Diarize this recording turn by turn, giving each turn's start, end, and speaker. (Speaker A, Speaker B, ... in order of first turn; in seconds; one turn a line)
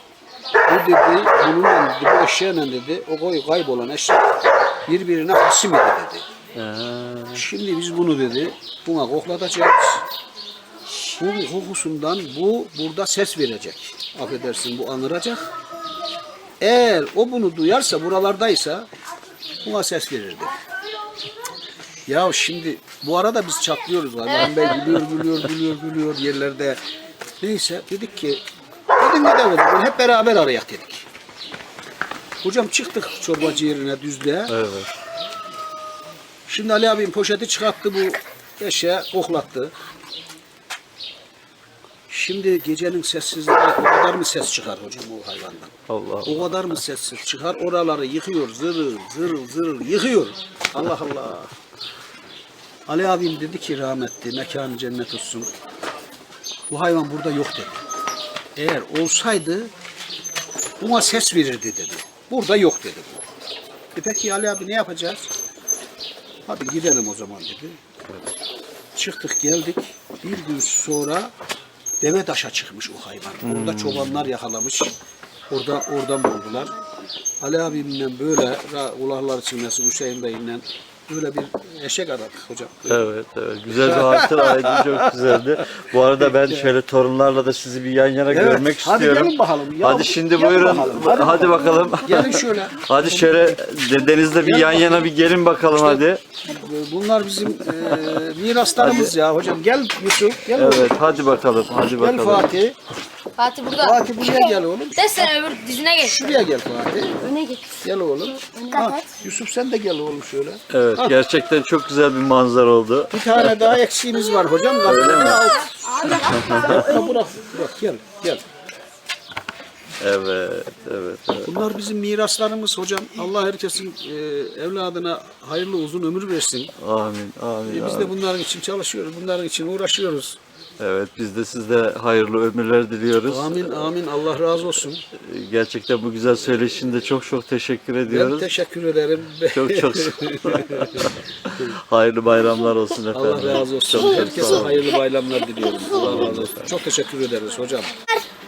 Speaker A: 0.7-6.3
Speaker B: 6.5-7.5
Speaker A: 7.3-10.1
Speaker A: 11.2-15.5
Speaker A: 16.6-18.9
Speaker A: 19.6-20.5
Speaker A: 22.1-26.8
Speaker B: 24.4-25.1
Speaker A: 27.4-28.4
Speaker A: 29.0-31.1
Speaker A: 32.4-34.5
Speaker B: 34.5-34.9
Speaker A: 36.5-39.7
Speaker A: 42.1-51.5
Speaker B: 45.9-46.8
Speaker A: 52.9-55.5
Speaker A: 56.7-57.8
Speaker A: 58.6-59.7
Speaker A: 60.8-63.3
Speaker A: 64.0-65.3
Speaker A: 66.5-67.8
Speaker A: 69.0-71.3
Speaker A: 72.0-75.0
Speaker B: 73.4-74.3
Speaker A: 75.5-76.8
Speaker A: 77.4-83.1
Speaker B: 82.9-96.2
Speaker A: 83.7-86.7
Speaker A: 88.3-93.6
Speaker A: 94.3-95.1
Speaker A: 95.7-101.0
Speaker B: 97.7-98.2
Speaker B: 98.8-99.1
Speaker B: 100.5-102.5
Speaker A: 102.0-102.8
Speaker C: 103.4-106.5
Speaker A: 103.7-105.3
Speaker A: 106.0-111.2
Speaker C: 107.3-107.7
Speaker B: 110.7-113.8
Speaker A: 113.1-118.4
Speaker B: 114.8-117.1
Speaker B: 120.0-121.6
Speaker A: 121.5-126.7
Speaker B: 126.8-128.2
Speaker A: 127.7-130.4
Speaker B: 130.8-133.9
Speaker A: 133.2-135.0
Speaker B: 134.8-138.5
Speaker A: 138.1-141.8
Speaker B: 139.5-144.9
Speaker A: 143.1-148.0
Speaker B: 145.9-146.7